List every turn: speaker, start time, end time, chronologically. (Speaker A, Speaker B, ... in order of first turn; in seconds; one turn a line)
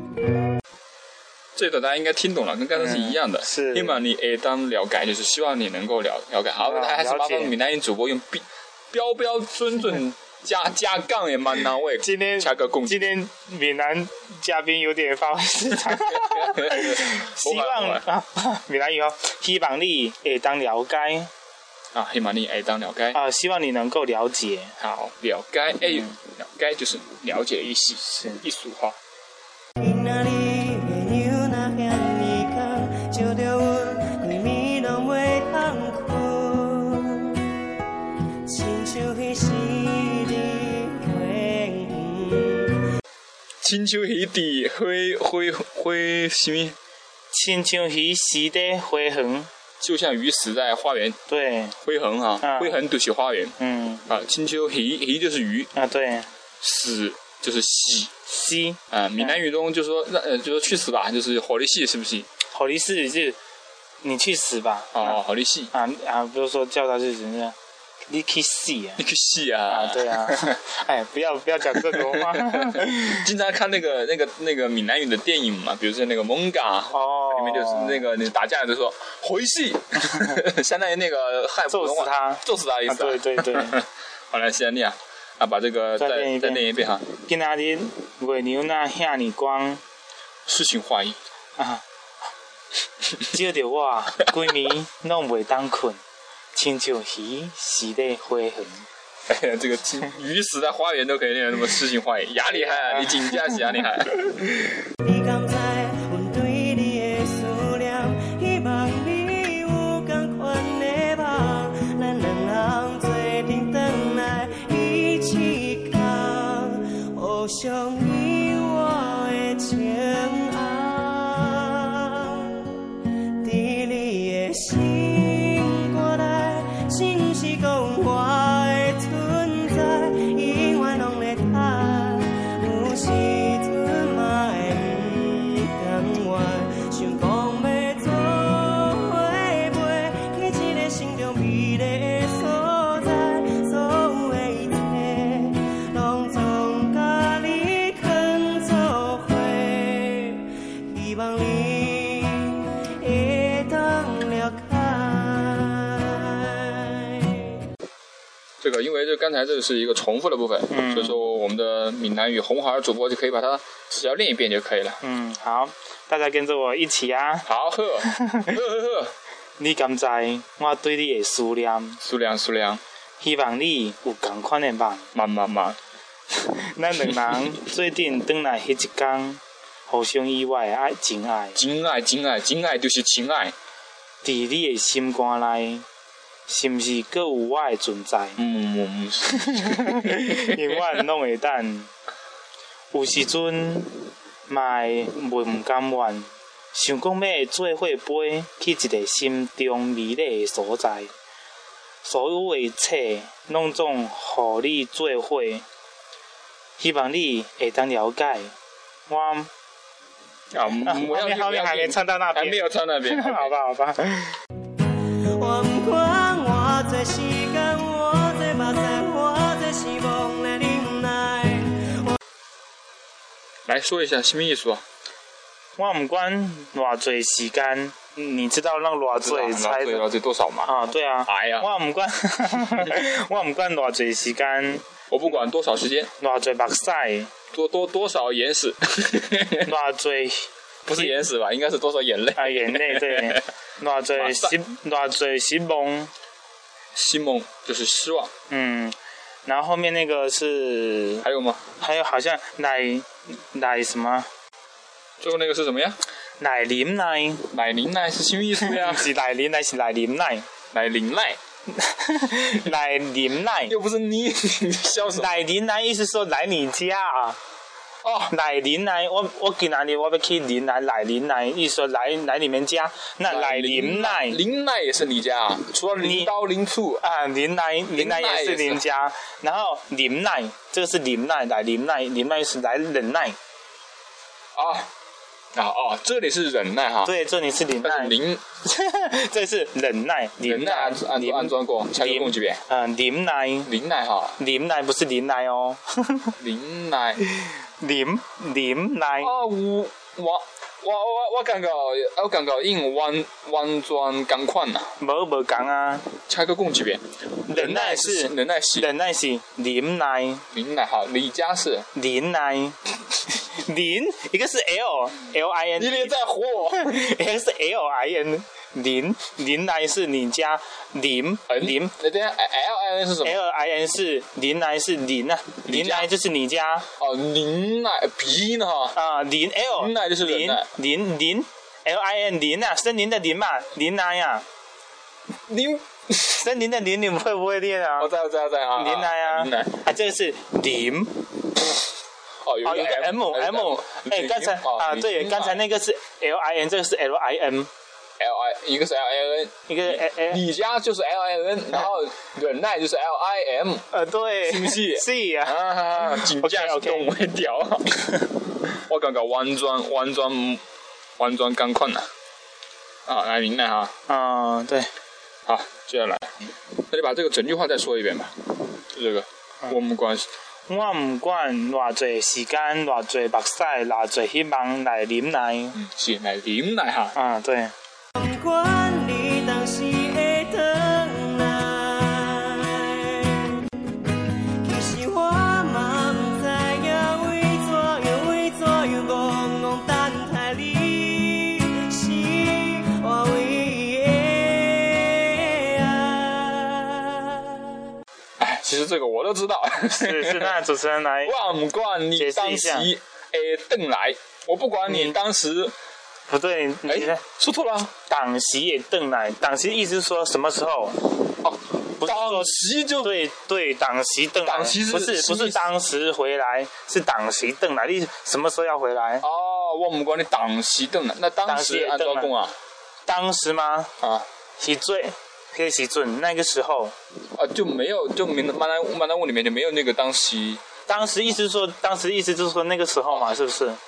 Speaker A: 1.6-13.2
Speaker B: 2.8-4.0
Speaker B: 6.6-7.6
Speaker B: 12.0-21.3
Speaker A: 15.9-18.1
Speaker A: 21.9-23.2
Speaker B: 23.1-24.8
Speaker A: 24.8-29.0
Speaker B: 25.9-26.1
Speaker B: 28.0-28.4
Speaker C: 29.8-37.6
Speaker C: 38.5-42.9
Speaker A: 43.6-46.8
Speaker B: 47.3-49.5
Speaker A: 49.8-51.2
Speaker B: 51.3-51.8
Speaker A: 51.8-53.6
Speaker B: 52.4-52.8
Speaker B: 53.6-54.0
Speaker A: 54.1-55.7
Speaker B: 55.8-56.3
Speaker A: 56.6-58.1
Speaker B: 58.3-59.4
Speaker A: 58.9-62.3
Speaker B: 62.5-63.4
Speaker B: 64.0-65.2
Speaker A: 64.9-65.7
Speaker B: 65.7-67.5
Speaker B: 68.1-69.0
Speaker A: 69.0-70.5
Speaker B: 69.7-73.2
Speaker A: 71.7-87.1
Speaker B: 76.9-78.0
Speaker B: 81.7-83.8
Speaker B: 86.0-89.8
Speaker A: 90.5-91.2
Speaker B: 91.6-91.8
Speaker B: 93.2-96.0
Speaker B: 96.5-98.9
Speaker A: 99.3-104.5
Speaker B: 102.5-103.6
Speaker C: 105.0-157.6
Speaker A: 158.6-165.0
Speaker B: 160.7-161.2
Speaker B: 165.0-167.5
Speaker A: 167.4-169.1
Speaker B: 168.0-168.6
Speaker B: 169.6-172.0
Speaker A: 172.0-172.8
Speaker B: 173.2-175.1
Speaker A: 175.1-175.8
Speaker B: 176.3-181.6
Speaker A: 181.6-183.5
Speaker B: 184.2-185.8
Speaker B: 186.5-188.4
Speaker A: 188.4-190.8
Speaker B: 189.4-191.9
Speaker B: 192.9-201.1
Speaker B: 202.0-205.6
Speaker B: 206.8-208.5
Speaker B: 209.1-209.5
Speaker A: 210.5-213.5
Speaker B: 210.7-214.4
Speaker C: 215.2-222.1
Speaker A: 223.7-224.8
Speaker B: 225.8-230.1
Speaker A: 229.1-231.7
Speaker B: 230.7-234.8
Speaker A: 235.1-236.1
Speaker B: 236.2-237.3
Speaker A: 237.5-239.7
Speaker B: 239.7-241.2
Speaker A: 240.9-243.4
Speaker B: 242.4-246.1
Speaker A: 244.2-244.6
Speaker A: 246.9-248.3
Speaker B: 248.5-251.3
Speaker A: 251.2-251.6
Speaker B: 251.8-254.3
Speaker A: 255.2-256.0
Speaker B: 256.4-257.5
Speaker A: 257.5-259.1
Speaker B: 258.6-260.5
Speaker A: 260.7-261.4
Speaker B: 261.7-263.7
Speaker A: 263.6-265.3
Speaker B: 265.1-267.4
Speaker A: 268.0-268.4
Speaker B: 268.3-274.4
Speaker A: 273.3-277.0
Speaker B: 276.0-276.3
Speaker B: 277.0-283.4
Speaker A: 277.9-278.8
Speaker A: 284.6-284.9
Speaker A: 285.5-287.1
Speaker B: 287.0-293.7
Speaker A: 287.8-288.4
Speaker A: 290.4-292.6
Speaker A: 293.7-294.4
Speaker B: 294.4-296.3
Speaker A: 296.4-297.2
Speaker B: 297.3-299.3
Speaker A: 299.2-304.9
Speaker B: 305.0-306.1
Speaker A: 306.3-308.9
Speaker B: 307.4-310.4
Speaker A: 310.5-311.9
Speaker B: 311.9-321.9
Speaker A: 315.8-317.1
Speaker A: 321.5-323.4
Speaker B: 323.2-326.9
Speaker A: 325.7-326.1
Speaker A: 327.0-329.0
Speaker B: 328.9-334.4
Speaker A: 329.8-330.7
Speaker A: 335.5-336.4
Speaker B: 336.4-338.1
Speaker A: 338.0-339.8
Speaker B: 338.8-341.3
Speaker A: 342.4-345.6
Speaker B: 342.6-347.7
Speaker A: 348.2-353.9
Speaker B: 349.7-350.4
Speaker B: 353.9-357.1
Speaker A: 354.5-360.6
Speaker A: 361.2-362.1
Speaker A: 363.1-363.9
Speaker B: 364.1-364.9
Speaker A: 365.5-366.4
Speaker A: 366.9-370.3
Speaker B: 370.7-375.8
Speaker A: 375.8-377.2
Speaker B: 377.1-377.7
Speaker C: 378.2-383.7
Speaker C: 384.6-397.7
Speaker A: 398.4-400.6
Speaker B: 399.9-401.4
Speaker A: 401.2-405.8
Speaker B: 402.1-402.9
Speaker B: 404.9-405.2
Speaker B: 406.3-407.2
Speaker A: 406.9-407.9
Speaker B: 408.1-411.1
Speaker A: 411.4-413.1
Speaker B: 412.0-419.2
Speaker A: 414.4-415.7
Speaker A: 419.2-422.6
Speaker B: 421.4-422.3
Speaker B: 423.1-423.9
Speaker A: 424.0-424.3
Speaker B: 424.6-426.9
Speaker A: 427.4-430.6
Speaker B: 430.9-433.8
Speaker A: 433.1-433.4